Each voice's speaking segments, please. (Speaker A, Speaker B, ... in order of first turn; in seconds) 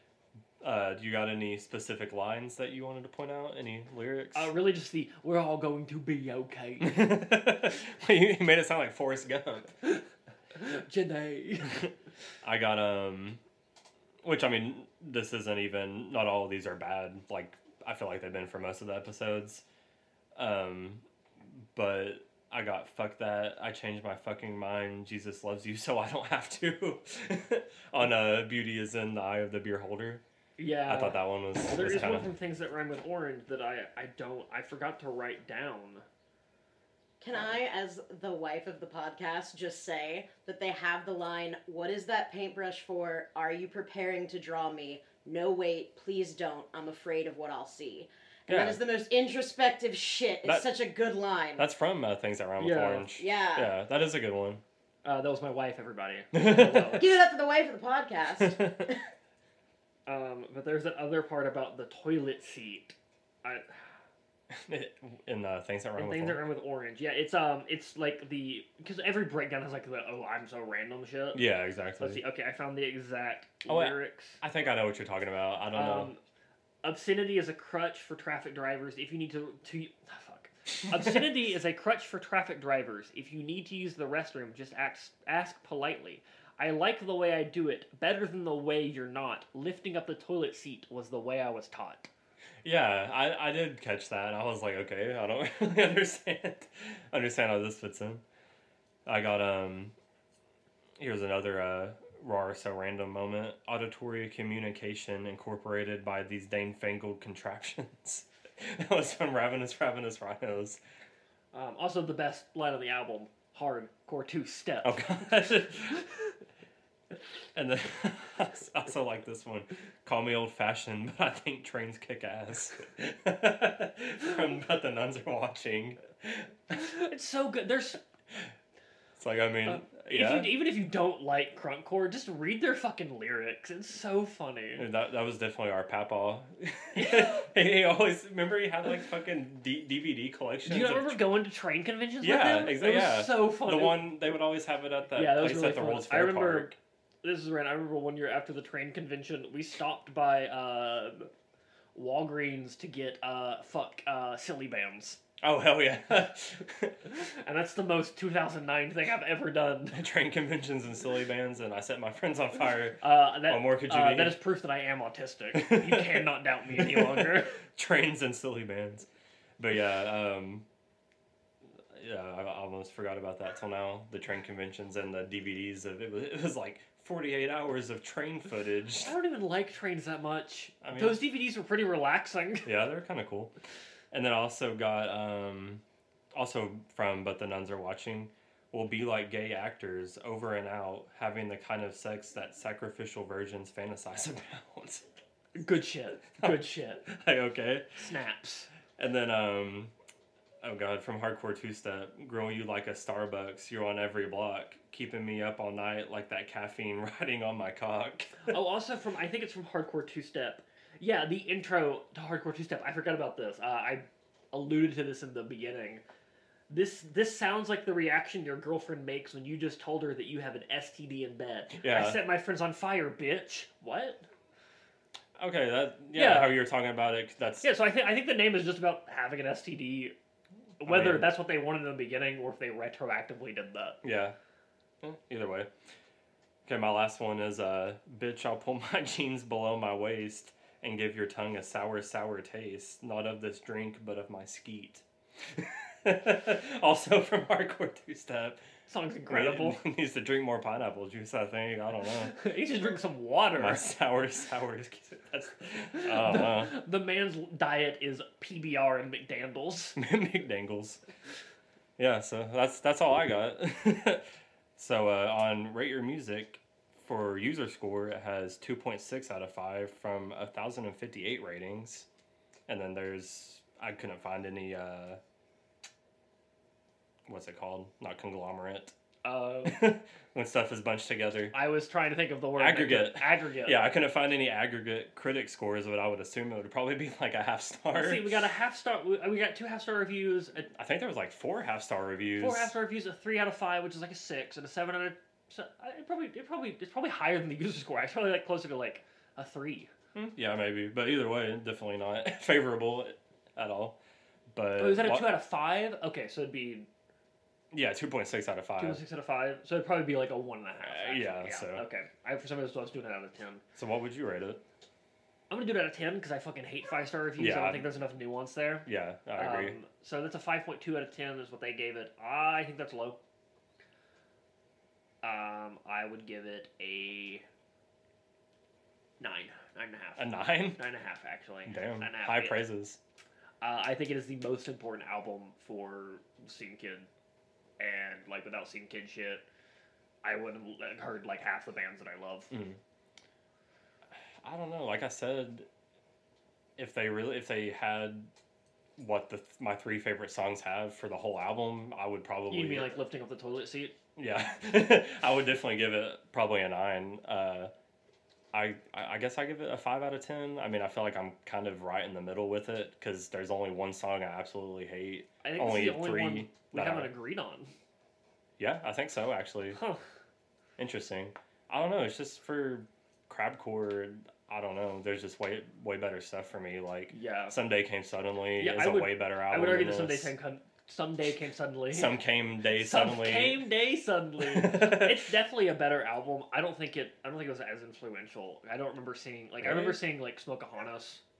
Speaker A: 0.6-4.5, 6.8-9.7, 12.4-13.4, 14.2-19.6, 20.4-21.1, 21.7-30.2, 30.9-32.3, 48.5-48.8, 50.4-50.7, 51.5-54.6, 56.3-57.0, 58.4-58.9, 64.5-66.5, 71.3-72.2, 73.7-76.1, 92.6-98.2, 99.0-99.9, 101.0-110.8, 114.8-116.1, 117.5-126.8, 129.2-130.6, 134.8-141.2, 142.2-146.7, 155.4-156.9, 159.9-164.4, 165.5-169.1, 169.6-170.6, 171.9-179.1, 180.8-181.2, 182.6-183.6, 184.1-185.8, 186.3-195.0, 196.4-197.9, 199.0-199.9, 200.6-208.5, 221.7-222.2, 225.4-227.7, 230.8-231.3, 234.0-234.4, 235.0-235.7, 236.7-248.6, 249.3-252.3, 253.6-256.7, 259.9-261.0, 262.0-272.1, 272.7-275.2, 277.3-278.9, 279.6-281.6, 282.6-288.3, 290.7-292.7, 300.1-304.0, 304.5-305.3, 307.7-309.0, 310.8-311.9, 313.8-314.6, 317.4-317.9, 318.9-319.8, 330.2-330.8, 331.7-333.0, 342.5-342.8, 344.4-345.7, 346.8-348.3, 349.0-353.0, 354.1-357.7, 358.5-367.1, 368.6-369.8, 370.8-380.3, 381.9-383.7, 384.4-385.2, 389.6-390.0
Speaker B: 4.3-7.2, 10.5-11.9, 30.6-36.0, 52.6-53.1, 55.0-57.2, 60.1-64.0, 66.0-71.4, 72.0-74.4, 75.7-76.2, 76.8-92.1, 111.5-115.3, 126.7-128.0, 129.7-134.9, 136.9-137.5, 140.7-144.2, 145.1-146.7, 147.2-151.3, 151.9-155.2, 157.1-160.0, 163.0-167.6, 179.0-182.7, 195.6-197.1, 197.9-198.7, 208.5-216.0, 216.7-224.3, 226.1-226.6, 227.6-230.2, 230.8-234.0, 248.9-249.8, 252.2-253.8, 255.9-260.0, 279.2-279.9, 281.5-283.9, 287.9-290.7, 292.4-299.9, 304.8-306.9, 308.8-313.6, 315.5-323.2, 325.2-327.4, 329.2-332.6, 333.6-337.1, 337.8-339.4, 340.2-342.5, 352.5-353.9, 365.4-367.7, 369.8-370.0, 377.1-377.6, 378.6-382.2, 382.7-391.2
Speaker C: 37.2-51.7, 53.1-53.8, 56.9-59.0